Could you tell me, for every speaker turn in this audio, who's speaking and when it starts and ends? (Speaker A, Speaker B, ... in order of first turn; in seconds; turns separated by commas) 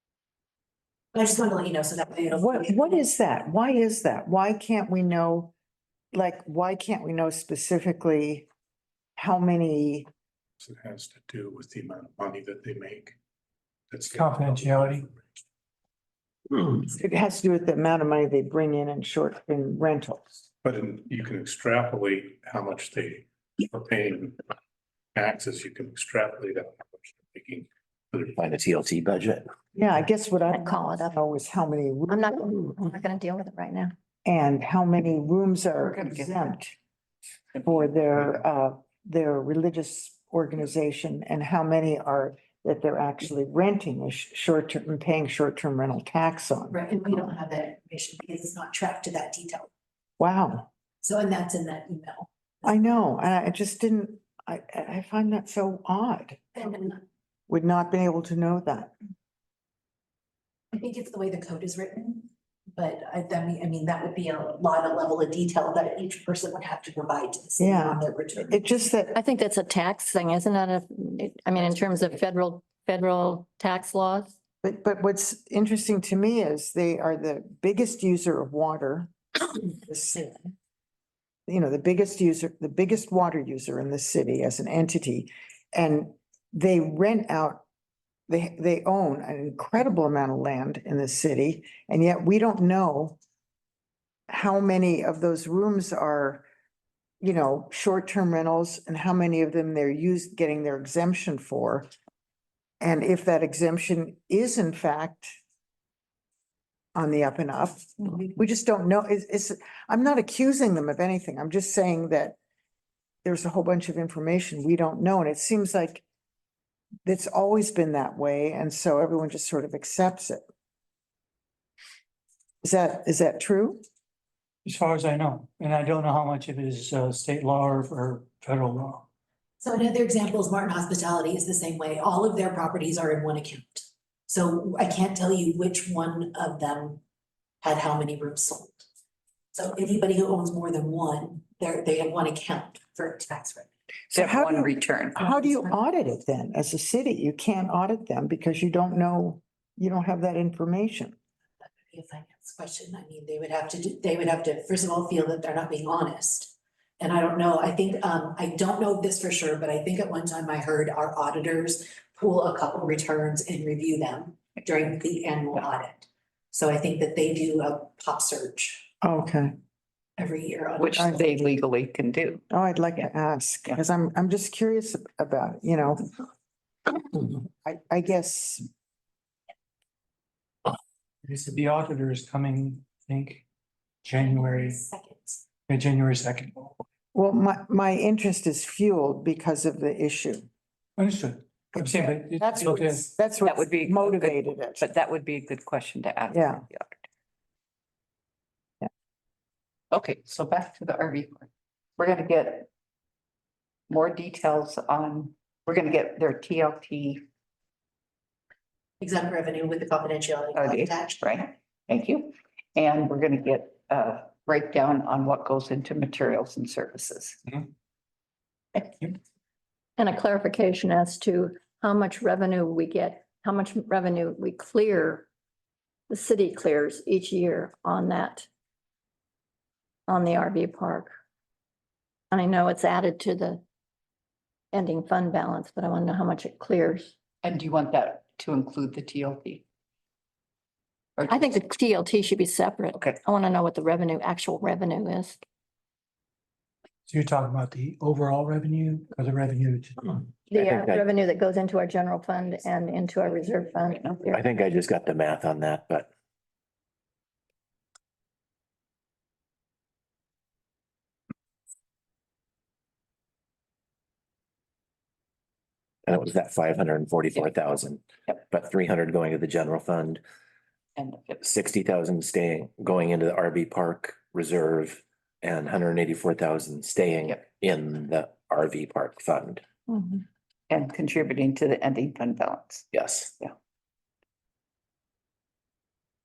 Speaker A: 1.1-3.0, Speaker B: 2.3-5.5, Speaker B: 6.1-8.5, Speaker B: 9.2-10.1, Speaker C: 10.6-13.2, Speaker C: 13.9-15.2, Speaker D: 14.1-15.1, Speaker B: 16.6-20.4, Speaker C: 20.6-24.4, Speaker C: 25.1-28.4, Speaker E: 28.4-29.5, Speaker B: 29.7-32.3, Speaker F: 30.5-31.1, Speaker F: 32.1-33.9, Speaker B: 34.2-36.8, Speaker B: 37.6-46.8, Speaker A: 46.7-49.7, Speaker B: 50.2-50.7, Speaker A: 51.0-52.7, Speaker B: 52.6-56.5, Speaker A: 56.5-57.0, Speaker B: 57.5-58.9, Speaker A: 60.7-68.6, Speaker B: 67.6-69.2, Speaker F: 69.2-74.3, Speaker B: 74.6-80.5, Speaker B: 81.5-87.6, Speaker B: 88.3-93.2, Speaker B: 94.3-96.5, Speaker B: 97.2-101.9, Speaker B: 102.8-105.4, Speaker B: 106.9-112.3, Speaker B: 113.2-116.0, Speaker B: 117.0-120.4, Speaker B: 122.6-123.8, Speaker D: 124.6-129.1, Speaker A: 129.6-137.0, Speaker A: 137.6-138.9, Speaker A: 139.5-143.7, Speaker G: 144.1-145.6, Speaker B: 144.1-151.1, Speaker A: 145.2-145.7, Speaker A: 151.7-168.9, Speaker B: 169.0-169.5, Speaker A: 170.2-171.5, Speaker G: 170.8-172.4, Speaker B: 172.5-176.1, Speaker B: 177.0-178.7, Speaker D: 181.2-183.4, Speaker D: 184.0-184.8, Speaker A: 184.1-185.4, Speaker D: 185.7-186.7, Speaker B: 187.1-190.5, Speaker D: 191.0-193.1, Speaker B: 191.7-194.8, Speaker G: 193.4-197.0, Speaker B: 196.3-196.6, Speaker G: 199.9-202.7, Speaker G: 203.9-207.2, Speaker A: 209.0-211.4, Speaker G: 210.5-217.7, Speaker F: 220.0-225.3, Speaker F: 226.1-228.5, Speaker F: 230.1-231.1, Speaker F: 232.3-233.6, Speaker F: 234.7-237.2, Speaker G: 237.4-239.6, Speaker G: 241.2-241.7, Speaker F: 241.3-245.4, Speaker G: 242.9-243.2, Speaker D: 247.1-250.2, Speaker F: 250.5-254.0, Speaker E: 250.6-251.0, Speaker G: 252.6-254.4, Speaker E: 254.3-256.1, Speaker E: 266.1-270.2, Speaker G: 270.9-271.4, Speaker E: 271.4-279.6, Speaker G: 280.7-282.9, Speaker E: 282.9-283.3